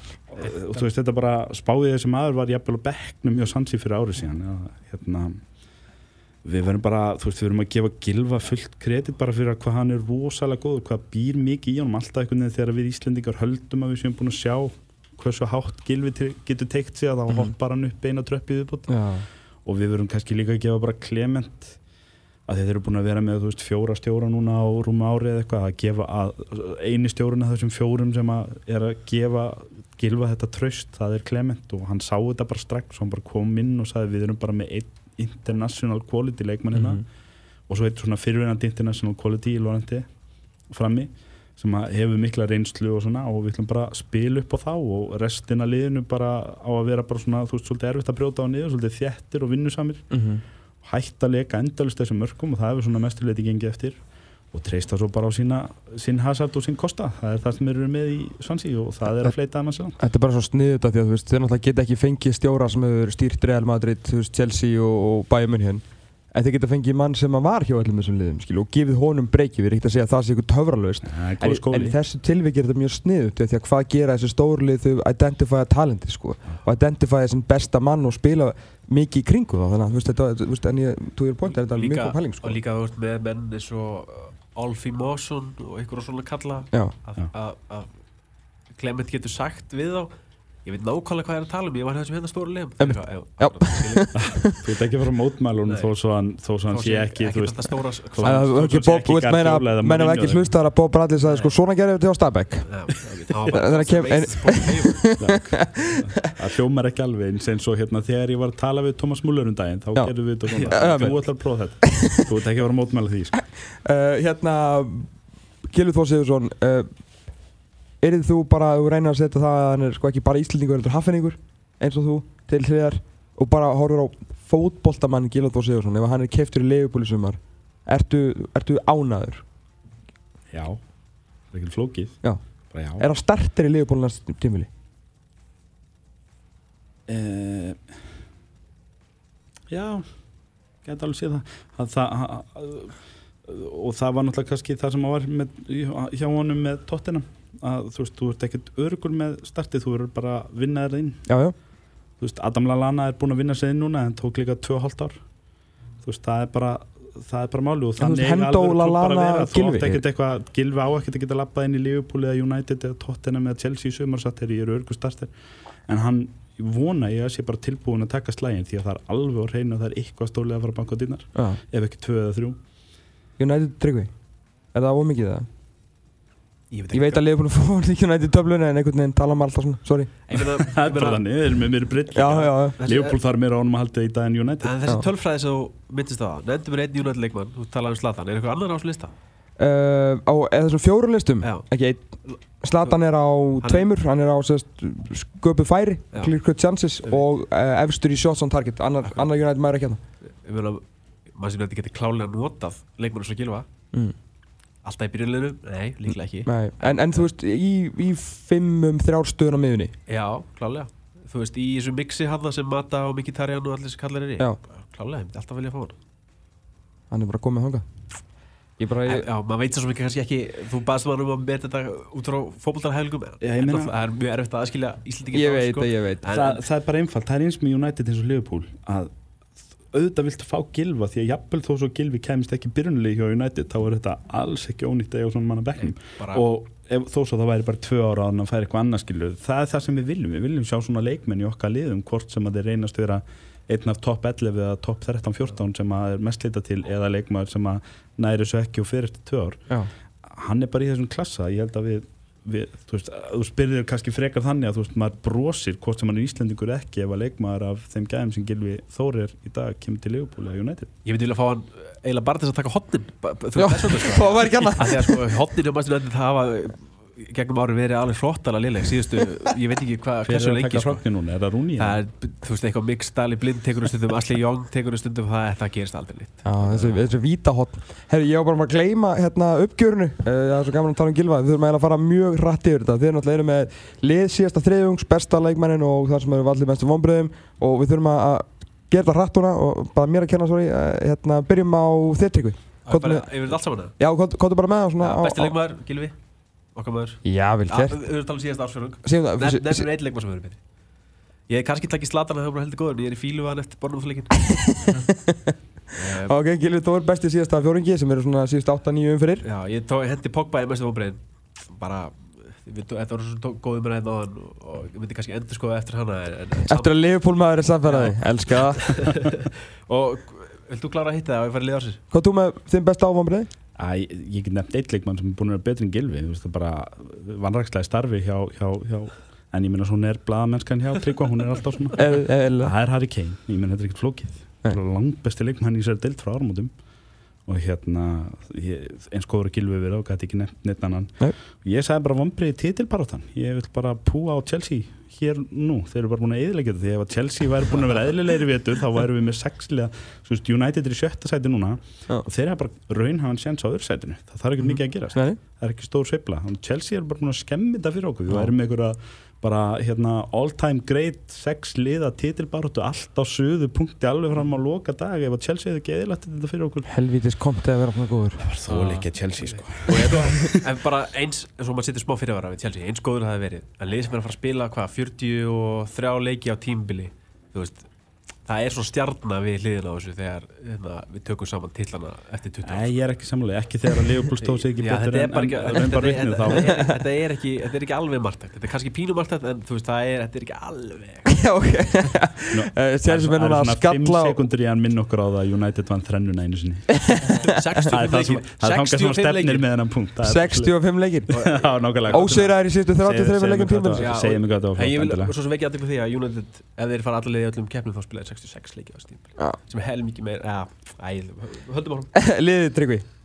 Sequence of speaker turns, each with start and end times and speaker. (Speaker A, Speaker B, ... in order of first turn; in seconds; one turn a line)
Speaker A: 0.3-5.4
Speaker A: 6.4-19.1
Speaker B: 18.9-19.2
Speaker A: 19.6-21.8
Speaker A: 22.5-37.0
Speaker B: 36.8-37.0
Speaker A: 37.7-40.0
Speaker A: 40.7-50.2
Speaker B: 50.1-50.4
Speaker A: 50.8-54.0
Speaker A: 54.5-60.0
Speaker B: 60.0-82.6
Speaker A: 71.1-72.0
Speaker C: 81.7-87.9
Speaker C: 88.7-90.1
Speaker C: 90.6-94.1
Speaker B: 92.8-94.6
Speaker A: 94.1-100.5
Speaker C: 96.7-98.5
Speaker B: 98.2-102.7
Speaker C: 101.2-101.5
Speaker C: 102.7-105.0
Speaker B: 103.5-106.2
Speaker A: 105.2-113.4
Speaker C: 110.5-110.8
Speaker B: 110.7-111.1
Speaker B: 111.8-112.2
Speaker B: 113.6-115.1
Speaker B: 115.7-116.9
Speaker B: 118.0-129.4
Speaker A: 130.5-130.8
Speaker A: 131.5-132.2
Speaker A: 132.7-133.1
Speaker B: 133.0-134.7
Speaker A: 137.1-137.8
Speaker A: 139.7-140.2
Speaker A: 140.8-151.2
Speaker B: 151.3-151.5
Speaker A: 152.2-155.2
Speaker A: 156.0-165.3
Speaker B: 158.0-160.0
Speaker A: 165.9-172.6
Speaker B: 171.3-171.6
Speaker B: 173.4-174.1
Speaker B: 174.7-175.5
Speaker C: 176.7-177.2
Speaker B: 176.9-180.1
Speaker C: 180.3-181.2
Speaker A: 180.6-184.7
Speaker B: 182.1-182.8
Speaker C: 182.3-183.1
Speaker C: 184.6-189.1
Speaker B: 189.6-200.0
Speaker C: 192.3-192.9
Speaker C: 193.6-193.9
Speaker C: 199.0-199.3
Speaker C: 200.4-203.7
Speaker C: 204.8-207.2
Speaker B: 206.4-209.9
Speaker C: 210.1-215.9
Speaker B: 217.1-217.8
Speaker B: 218.8-219.2
Speaker C: 219.1-226.6
Speaker A: 223.4-223.9
Speaker B: 225.3-226.2
Speaker A: 226.3-229.1
Speaker A: 229.9-249.6
Speaker C: 235.8-236.4
Speaker A: 250.3-260.9
Speaker C: 261.0-271.0
Speaker B: 263.6-265.2
Speaker A: 270.2-272.0
Speaker C: 271.8-277.0
Speaker B: 276.4-293.2
Speaker C: 292.9-293.9
Speaker B: 294.0-295.5
Speaker C: 295.0-296.1
Speaker C: 296.7-300.6
Speaker B: 297.2-298.0
Speaker B: 299.0-299.9
Speaker C: 301.5-304.4
Speaker B: 304.4-305.5
Speaker C: 305.9-306.3
Speaker B: 306.2-309.4
Speaker C: 309.4-316.9
Speaker B: 316.7-319.1
Speaker C: 317.9-322.0
Speaker B: 322.1-323.5
Speaker A: 323.8-336.7
Speaker B: 332.0-332.7
Speaker A: 337.4-366.9
Speaker B: 366.9-368.4
Speaker A: 368.4-370.5
Speaker C: 368.7-377.9
Speaker C: 378.4-382.9
Speaker A: 382.6-386.8
Speaker C: 384.4-391.4
Speaker B: 391.3-394.4
Speaker A: 392.5-397.2
Speaker B: 397.1-397.5
Speaker C: 397.4-399.6
Speaker A: 397.9-405.3
Speaker B: 400.2-401.5
Speaker C: 401.3-402.4
Speaker B: 402.1-404.1
Speaker C: 404.0-412.1
Speaker B: 412.1-413.1